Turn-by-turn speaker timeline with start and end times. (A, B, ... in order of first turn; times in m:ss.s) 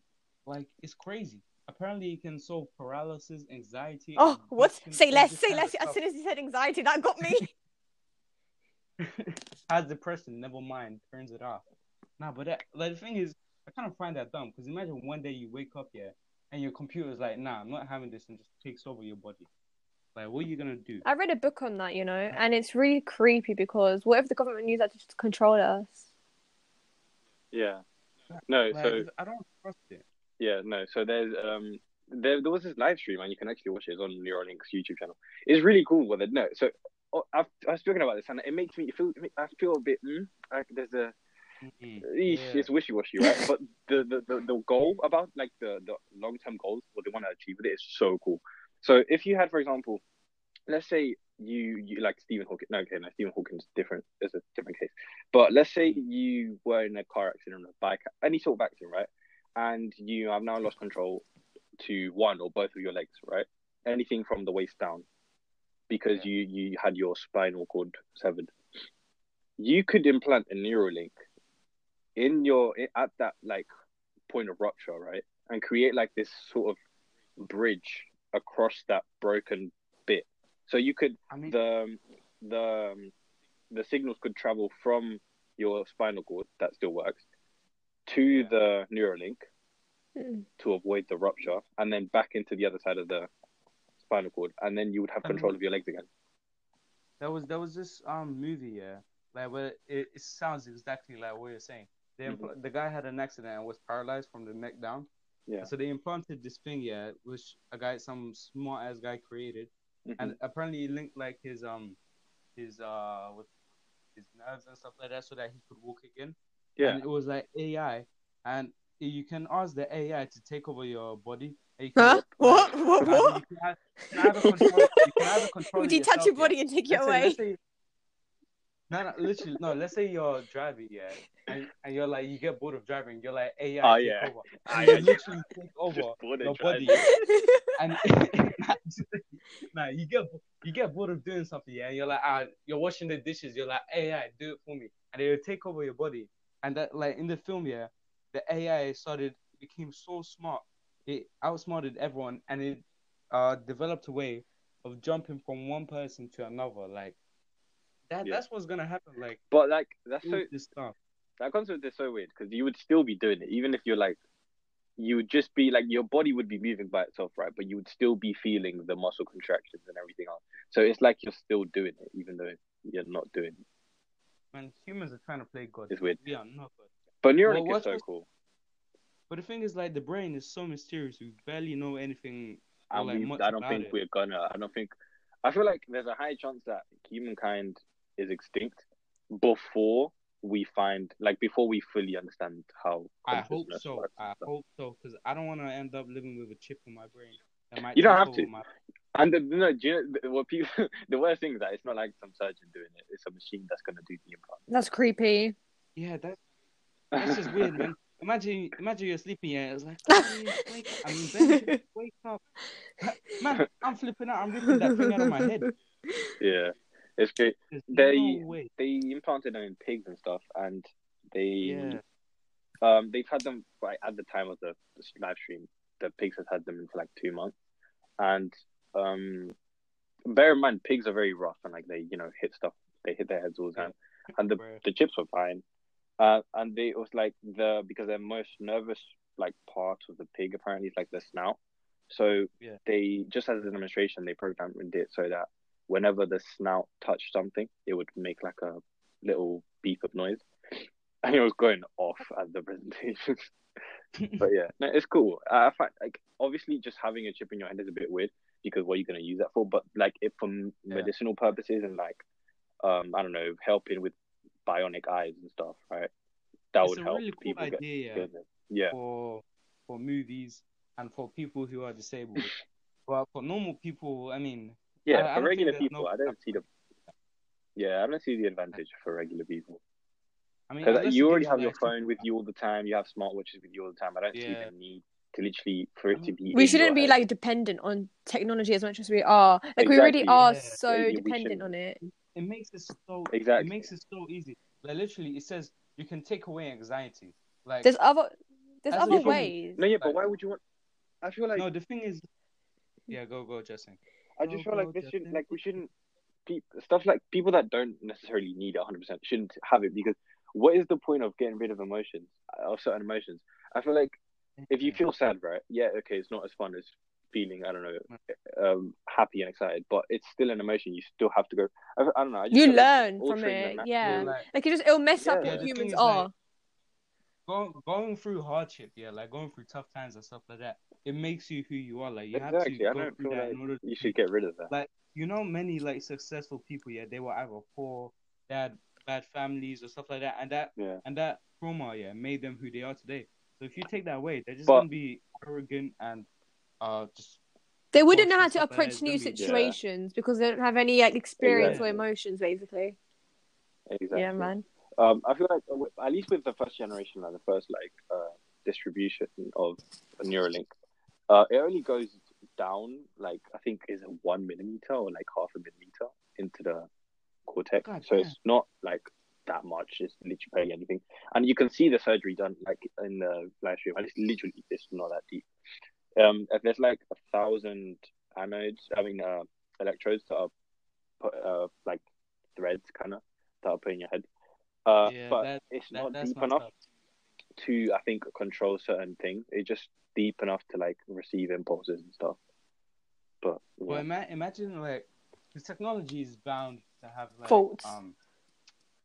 0:00.5-0:06.0 A
0:04.2-0:07.5 B
0:07.2-0:07.5 A
0:09.0-0:11.6 A
0:12.2-0:19.5 A
0:20.2-0:21.0 A
0:21.0-0:26.1 B
0:27.5-0:27.8 C
0:28.3-0:30.0 A
0:28.5-0:29.1 C
0:30.4-0:41.2 C
0:41.6-0:42.7 A
0:42.0-0:50.0 C
0:50.7-1:01.2 C
1:01.8-1:05.1 C
1:05.9-1:08.6 C
1:09.6-1:11.2 C
1:12.2-1:13.7 C
1:14.3-1:16.8 C
1:17.4-1:23.1 C
1:21.3-1:21.6 A
1:23.7-1:27.2 C
1:28.1-1:29.4 C
1:30.2-1:30.5 B
1:30.6-1:33.3 C
1:34.0-1:36.1 C
1:35.2-1:35.5 A
1:37.2-1:45.1 A
1:45.6-1:52.0 A
1:50.1-1:50.4 C
1:52.6-1:53.5 A
1:54.2-2:07.6 A
1:56.8-1:57.0 C
2:02.0-2:03.4 B
2:04.1-2:07.4 B
2:08.9-2:17.1 A
2:13.8-2:15.2 C
2:15.9-2:17.2 C
2:17.0-2:17.7 B
2:17.8-2:37.2 A
2:38.1-2:39.4 A
2:39.5-2:40.5 C
2:40.2-2:41.0 A
2:41.4-2:44.2 C
2:45.0-2:53.6 C
2:54.5-2:56.9 A
2:55.9-2:56.2 C
2:57.2-2:58.3 C
2:57.4-2:58.0 A
2:59.3-3:04.0 A
3:02.9-3:04.9 C
3:05.4-3:14.5 C
3:13.3-3:18.7 A
3:17.9-3:18.5 C
3:19.1-3:24.6 C
3:24.7-3:25.6 B
3:26.0-3:26.4 A
3:27.1-3:27.8 C
3:27.2-3:32.4 A
3:31.4-3:31.8 B
3:33.0-3:35.7 A
3:36.4-3:42.0 C
3:37.7-3:38.7 A
3:41.6-3:42.0 A
3:42.8-3:47.6 C
3:48.2-3:49.6 C
3:50.3-3:55.6 C
3:53.8-3:54.8 A
3:56.2-4:13.5 C
4:14.2-4:14.5 A
4:14.4-4:22.2 C
4:22.8-4:26.1 C
4:26.7-4:29.0 C
4:26.8-4:28.3 A
4:28.9-4:32.5 A
4:33.1-4:37.1 A
4:35.1-4:36.7 C
4:37.8-4:39.8 C
4:40.7-4:42.2 A
4:40.8-4:47.2 C
4:44.3-4:44.7 A
4:46.5-4:52.0 B
4:49.8-4:51.7 C
4:50.4-4:50.8 A
4:52.0-4:57.9 A
4:53.3-4:53.9 C
4:57.8-4:59.8 B
4:58.9-5:00.2 A
4:59.1-5:00.6 C
5:01.2-5:01.6 C
5:01.6-5:02.3 A
5:03.1-5:05.6 A
5:04.4-5:05.9 C
5:06.5-5:14.2 C
5:14.6-5:15.0 A
5:14.7-5:24.3 C
5:22.5-5:26.3 B
5:24.0-5:24.5 A
5:25.2-5:25.7 C
5:25.4-5:26.3 A
5:27.5-5:34.2 A
5:32.3-5:34.7 C
5:34.7-5:46.3 A
5:40.8-5:41.0 C
5:46.8-5:47.4 A
5:47.9-5:53.0 B
5:48.1-5:49.6 A
5:49.4-5:49.8 C
5:51.4-5:52.0 C
5:51.5-5:52.0 A
5:53.9-6:00.7 C
5:54.1-5:54.7 B
6:01.3-6:06.9 C
6:07.5-6:15.5 C
6:07.8-6:08.4 A
6:16.2-6:20.5 C
6:21.2-6:22.0 C
6:22.6-6:24.3 C
6:24.9-6:26.7 C
6:25.0-6:26.7 A
6:27.6-6:32.4 C
6:33.4-6:34.0 C
6:33.9-6:38.2 A
6:37.5-6:38.0 B